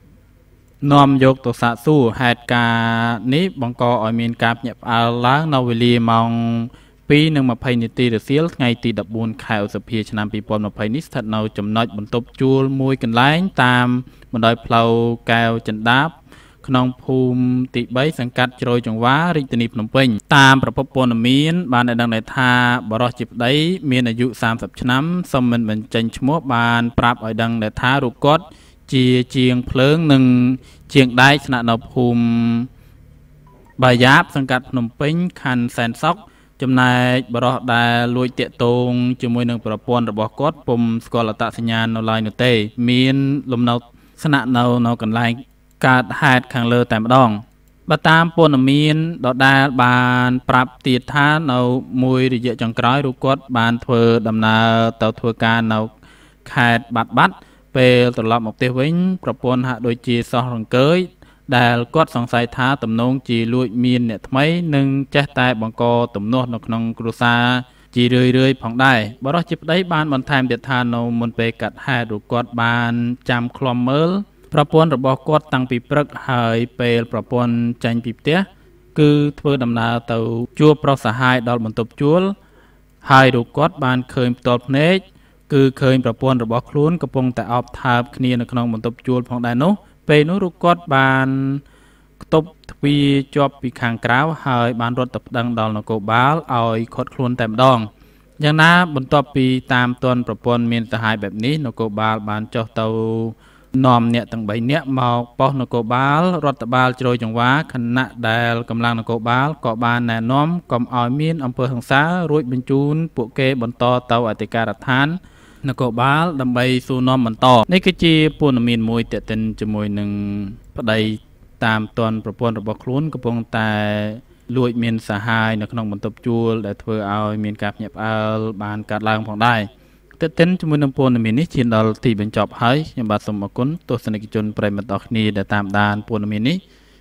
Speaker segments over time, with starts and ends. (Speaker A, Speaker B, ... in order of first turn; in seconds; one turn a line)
Speaker A: 0.8-32.7
Speaker A: 33.8-55.9
Speaker A: 56.5-82.3
Speaker A: 83.0-91.6
Speaker A: 92.2-97.9
Speaker A: 98.4-136.6